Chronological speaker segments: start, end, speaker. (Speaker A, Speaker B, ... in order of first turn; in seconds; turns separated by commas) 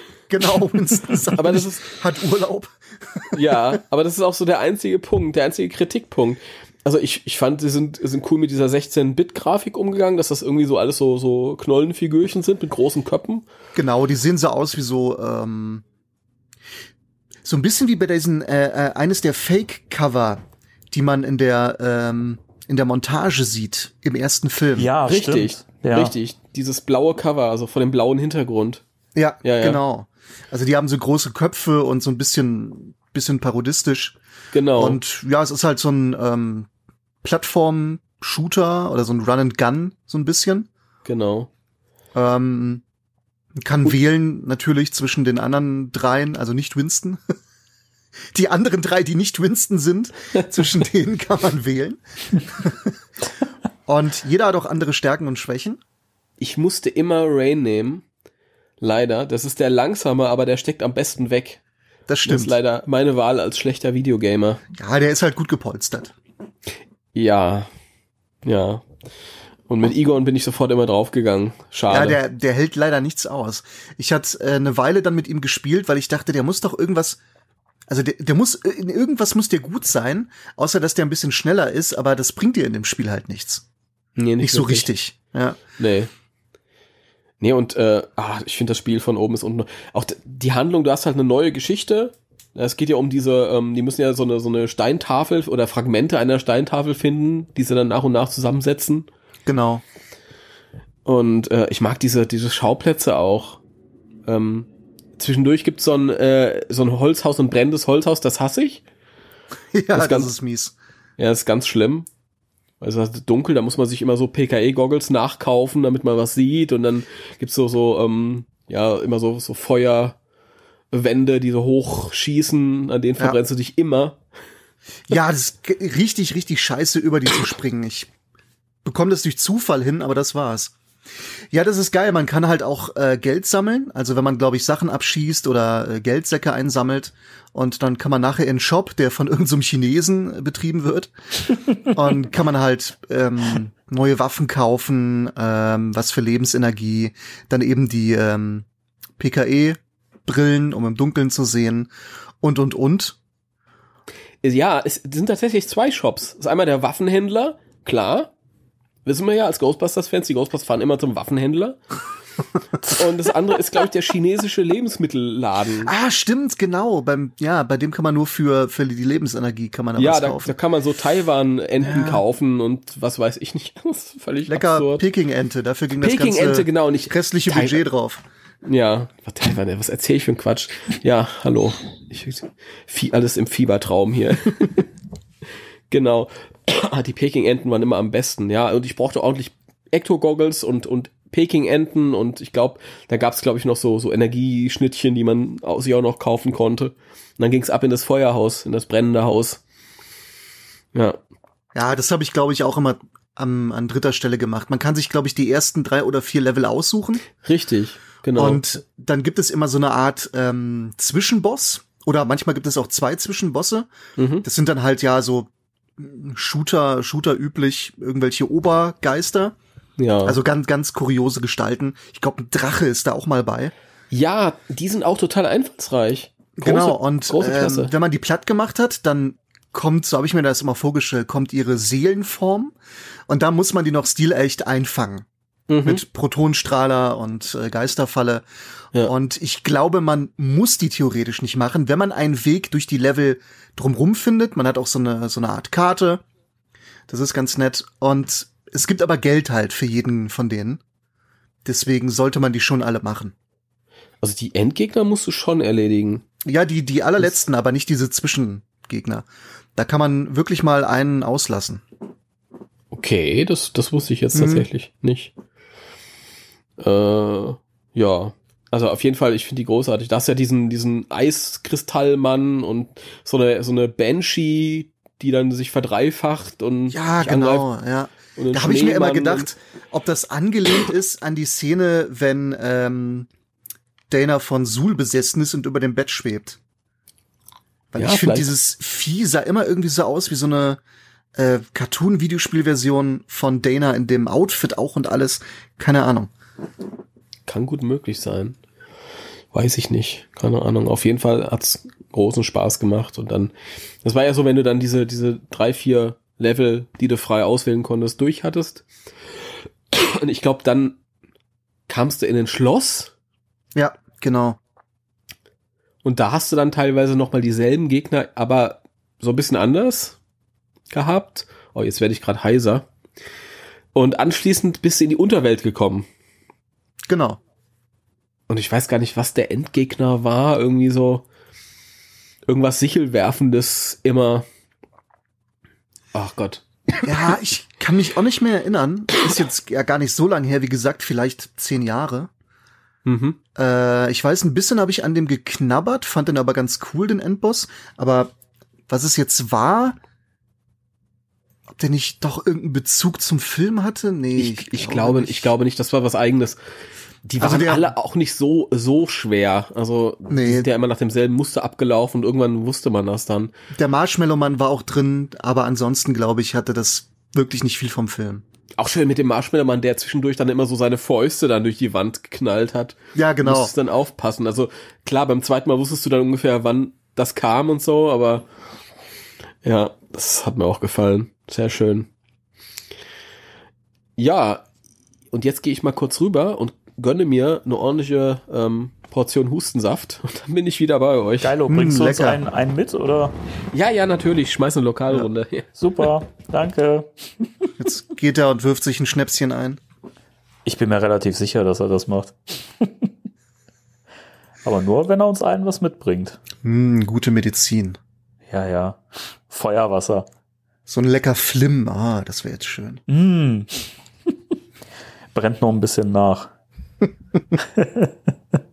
Speaker A: 0.3-3.8, Speaker B: 1.3-1.9, Speaker B: 3.3-13.4, Speaker A: 13.8-15.8, Speaker A: 17.4-24.9, Speaker C: 24.8-26.1, Speaker B: 25.1-28.8, Speaker A: 29.1-34.2, Speaker B: 29.4-29.8, Speaker B: 34.5-35.0, Speaker A: 34.8-36.7, Speaker A: 37.2-40.7, Speaker B: 41.0-41.5, Speaker A: 42.1-42.8, Speaker A: 43.6-47.2, Speaker A: 48.3-52.9, Speaker A: 53.9-55.8, Speaker B: 56.4-58.0, Speaker B: 58.8-61.6, Speaker A: 62.1-62.5, Speaker B: 62.2-64.6, Speaker A: 64.7-66.2, Speaker B: 67.2-67.7, Speaker B: 68.5-68.8, Speaker B: 69.7-72.2, Speaker A: 71.9-77.2, Speaker A: 77.9-83.7, Speaker B: 84.2-84.9, Speaker A: 84.4-85.6, Speaker B: 85.8-86.1, Speaker B: 87.4-99.1, Speaker A: 99.5-99.8, Speaker B: 101.0-103.6, Speaker B: 104.3-108.8, Speaker A: 109.7-110.8, Speaker B: 109.9-110.3, Speaker B: 111.2-112.1, Speaker B: 112.8-120.2, Speaker B: 120.9-124.2, Speaker A: 125.1-128.1, Speaker A: 128.8-130.7, Speaker A: 131.5-141.1, Speaker A: 141.9-148.7, Speaker A: 149.2-151.9, Speaker A: 152.4-153.2, Speaker B: 154.4-158.3, Speaker B: 159.1-161.8, Speaker B: 162.8-165.9, Speaker A: 165.8-170.5, Speaker B: 170.0-175.0, Speaker A: 171.8-172.2, Speaker A: 174.5-178.2, Speaker B: 176.0-177.8, Speaker B: 178.7-184.8, Speaker B: 185.9-199.6, Speaker B: 200.9-201.2, Speaker A: 201.8-207.3, Speaker B: 207.4-208.8, Speaker A: 208.4-213.9, Speaker B: 214.2-214.5, Speaker A: 214.4-219.6, Speaker B: 220.0-220.4, Speaker A: 220.2-223.7, Speaker B: 224.1-227.9, Speaker A: 226.6-232.8, Speaker A: 233.3-235.3, Speaker B: 235.7-236.0, Speaker A: 235.8-238.4, Speaker A: 239.0-246.2, Speaker A: 247.1-250.8, Speaker A: 251.7-253.3, Speaker B: 254.2-256.2, Speaker A: 256.4-261.8, Speaker B: 262.9-265.3, Speaker A: 264.4-264.7, Speaker B: 266.8-277.7, Speaker A: 276.9-283.3, Speaker B: 278.3-279.5, Speaker A: 284.1-286.6, Speaker A: 287.9-290.8, Speaker B: 288.0-288.5, Speaker A: 291.4-296.3, Speaker B: 297.5-298.6, Speaker B: 299.5-308.9, Speaker B: 309.9-311.0, Speaker B: 311.9-313.1, Speaker A: 313.8-314.6, Speaker B: 316.1-320.2, Speaker B: 320.9-322.9, Speaker B: 323.9-326.1, Speaker A: 327.1-327.4, Speaker B: 328.5-331.2, Speaker B: 332.5-334.5, Speaker B: 336.1-336.6, Speaker A: 337.0-342.3, Speaker B: 343.1-343.4, Speaker A: 343.6-348.3, Speaker A: 348.9-350.0, Speaker A: 351.7-355.5, Speaker B: 354.4-356.6, Speaker B: 357.2-363.5, Speaker A: 357.4-357.9, Speaker A: 360.3-360.7, Speaker A: 363.8-368.4, Speaker B: 368.8-378.4, Speaker A: 373.1-373.7, Speaker B: 379.6-382.1, Speaker B: 384.2-384.7, Speaker B: 385.3-391.5, Speaker C: 391.4-393.4, Speaker A: 391.7-392.4, Speaker B: 393.7-396.0, Speaker C: 395.8-397.7, Speaker A: 397.8-399.8, Speaker C: 400.6-403.1, Speaker C: 404.6-406.4, Speaker A: 406.6-408.0, Speaker C: 408.5-410.3, Speaker A: 410.9-413.0, Speaker C: 413.1-413.8, Speaker C: 415.3-416.5, Speaker C: 417.6-418.1